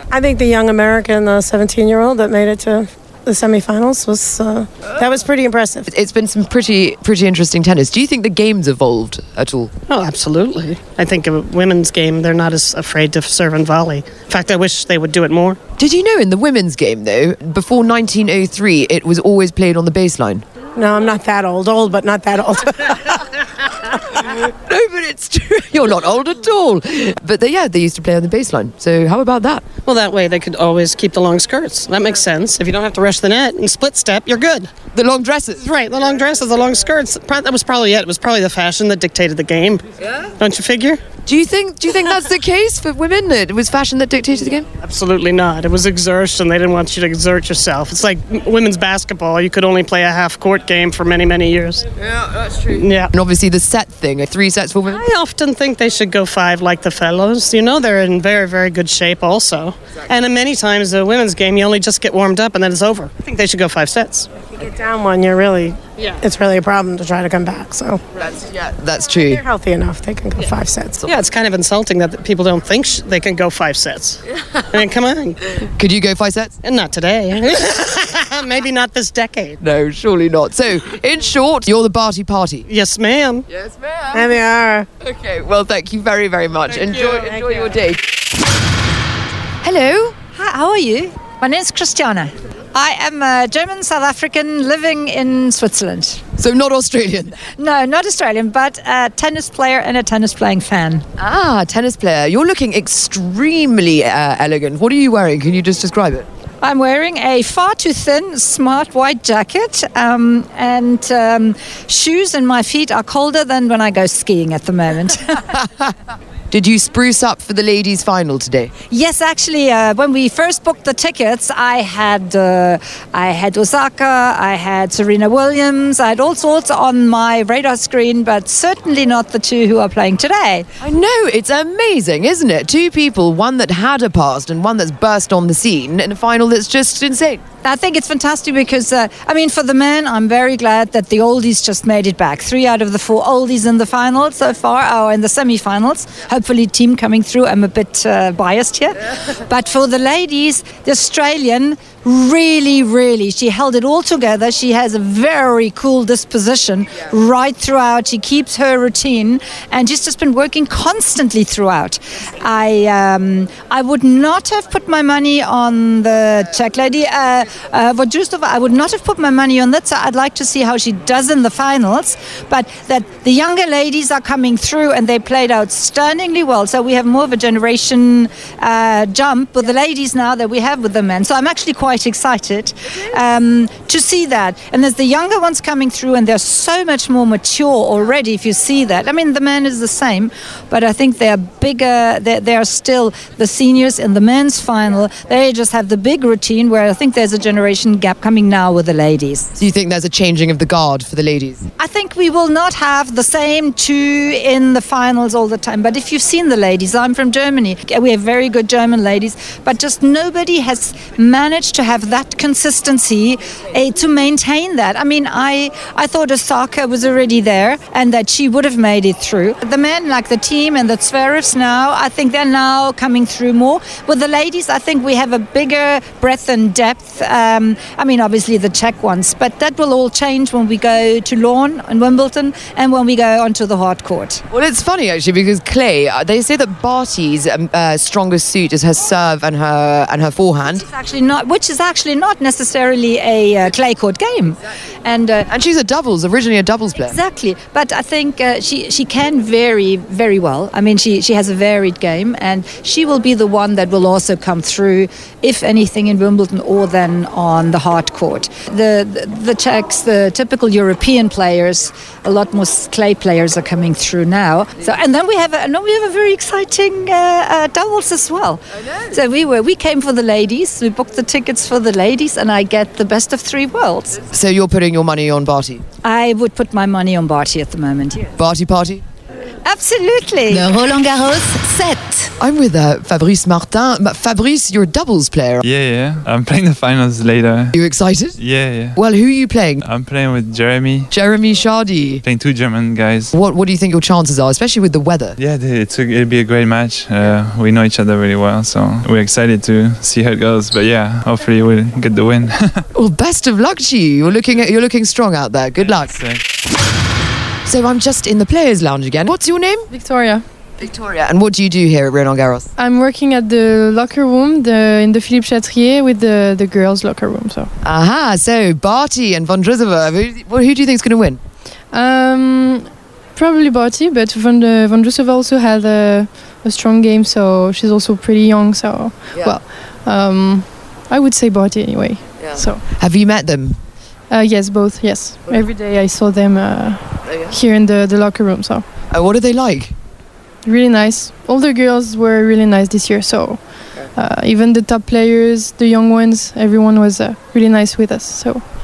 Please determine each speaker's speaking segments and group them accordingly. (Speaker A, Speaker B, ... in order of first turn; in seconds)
Speaker A: 0.1-5.9, 20.8-22.9, 64.6-68.0, 69.2-71.0, 84.1-84.9
Speaker B: 5.9-9.7, 15.8-20.4, 24.1-29.6, 34.9-35.7, 41.2-44.7, 52.1-52.6, 53.1-55.0, 68.2-69.4, 75.8-76.5, 79.6-82.7, 83.5-84.4, 85.0-88.1, 89.6-90.2, 96.4-97.4, 101.2-106.2, 116.5-118.7, 130.8-137.4, 199.6-201.6, 234.5-240.8, 245.5-247.1, 274.3-275.8, 278.4-279.0, 282.4-285.6, 287.7-288.4, 288.9-289.8, 291.1-292.2, 293.3-295.4, 302.9-306.1, 307.6-309.9, 310.8-312.7, 317.8-321.4, 332.4-333.8, 339.1-339.9
Speaker C: 9.9-15.6, 29.9-34.7, 35.7-39.8, 40.4-41.0, 44.8-51.8, 52.7-53.0, 54.9-64.3, 71.0-74.2, 74.7-75.4, 76.6-79.6, 82.7-83.4
Speaker D: 90.3-96.2, 97.6-101.0, 106.6-115.5, 118.9-130.7, 137.6-199.5, 201.8-234.4, 240.7-245.5, 247.1-274.2, 276.0-278.3, 279.6-280.8
Speaker E: 285.6-287.8, 288.4-289.0, 289.8-291.1, 292.2-293.3, 295.4-302.8, 305.8-306.4
Speaker F: 309.9-310.4, 312.8-317.7, 321.9-332.8, 334.3-338.8, 340.6-348.6